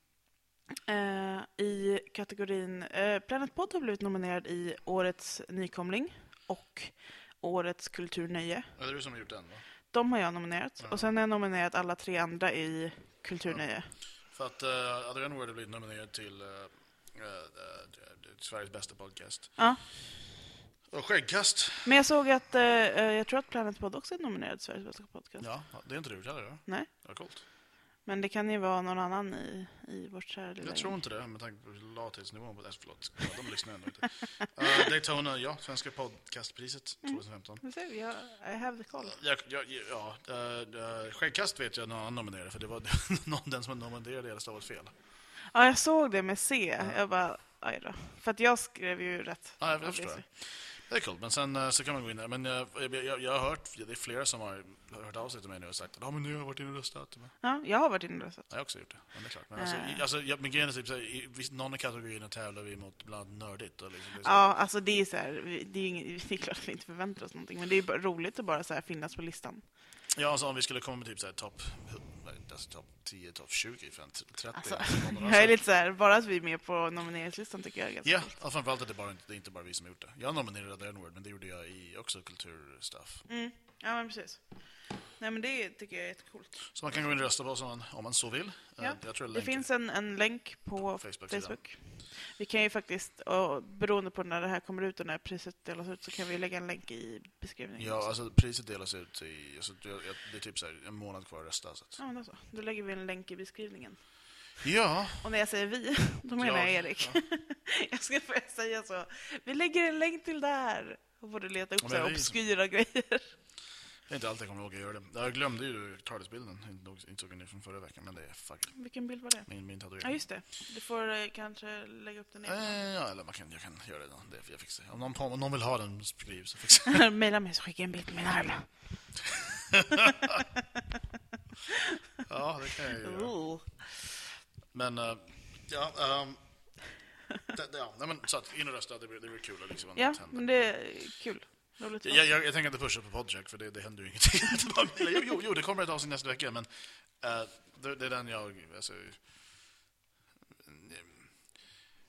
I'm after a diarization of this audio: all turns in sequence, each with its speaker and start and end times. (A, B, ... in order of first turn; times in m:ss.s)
0:00.9-0:08.8 A
0:08.8-0:09.6 B
0:09.9-0:13.9 A
0:10.8-0:11.1 B
0:13.5-0:19.9 B
0:19.6-0:19.8 A
0:20.9-0:21.9 B
0:21.8-0:25.5 A
0:25.4-0:27.4 B
0:28.0-0:31.0 A
0:30.6-0:37.6 B
0:37.0-0:39.2 A
0:39.1-0:44.9 B
0:45.5-0:50.2 A
0:49.6-0:57.4 B
0:57.4-0:58.9 A
0:58.5-1:04.5 B
0:59.6-1:00.0 A
1:04.2-1:09.6 A
1:10.1-1:15.6 B
1:14.6-1:18.4 A
1:18.0-1:23.3 B
1:23.3-1:27.2 A
1:26.7-1:29.7 B
1:28.8-1:38.1 A
1:31.0-1:31.7 B
1:37.8-1:42.0 B
1:42.0-1:44.5 A
1:44.6-1:45.3 B
1:45.2-1:53.4 A
1:46.4-1:47.2 B
1:51.8-1:52.4 B
1:54.1-2:00.3 B
1:58.8-2:02.8 A
2:02.4-2:07.0 B
2:06.9-2:09.1 A
2:12.2-2:13.8 B
2:13.0-2:13.8 A
2:14.7-2:21.2 B
2:20.0-2:22.2 A
2:22.0-2:29.8 B
2:30.5-2:31.7 B